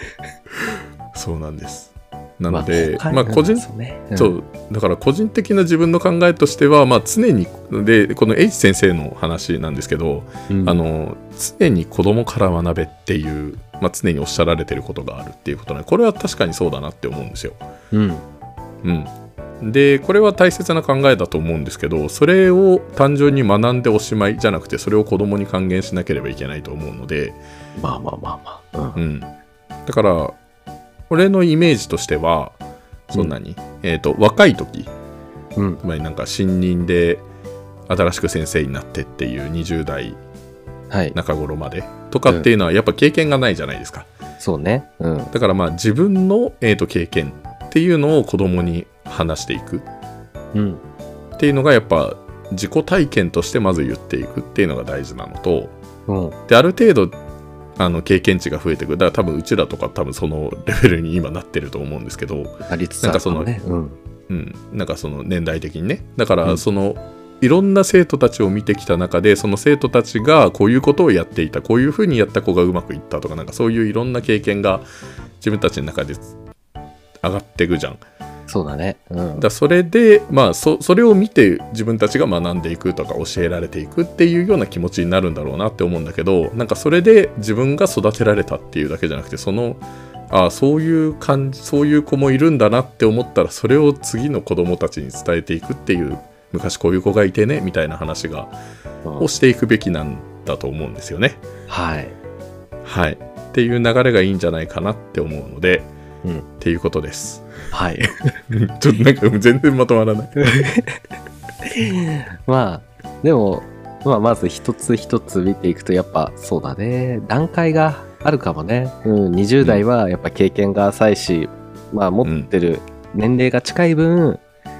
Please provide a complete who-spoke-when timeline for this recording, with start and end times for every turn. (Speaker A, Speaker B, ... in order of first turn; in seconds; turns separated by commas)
Speaker A: 1.1-17.6, Speaker B: 2.5-4.3, Speaker B: 10.5-10.8, Speaker B: 17.9-18.2, Speaker A: 18.8-27.4, Speaker B: 27.8-29.0, Speaker A: 28.9-29.3, Speaker A: 29.9-30.4, Speaker A: 31.1-32.5, Speaker A: 33.1-34.9, Speaker B: 35.5-35.8, Speaker A: 35.8-37.2, Speaker A: 37.9-40.2, Speaker B: 40.9-41.2, Speaker A: 41.1-44.1, Speaker B: 44.4-45.3, Speaker A: 45.3-49.8, Speaker B: 50.5-50.8, Speaker A: 51.4-55.7, Speaker B: 56.1-56.4, Speaker A: 56.5-57.1, Speaker A: 57.8-63.5, Speaker B: 62.6-64.0, Speaker A: 64.3-74.9, Speaker A: 75.4-76.3, Speaker A: 77.2-78.0, Speaker B: 78.5-79.4, Speaker A: 79.4-98.5, Speaker B: 99.0-99.3, Speaker A: 99.2-101.4, Speaker B: 101.7-102.1, Speaker A: 102.8-105.9, Speaker A: 106.6-107.5, Speaker B: 107.7-108.3, Speaker A: 108.5-110.6, Speaker B: 110.4-111.0, Speaker B: 111.6-124.4, Speaker A: 122.2-122.5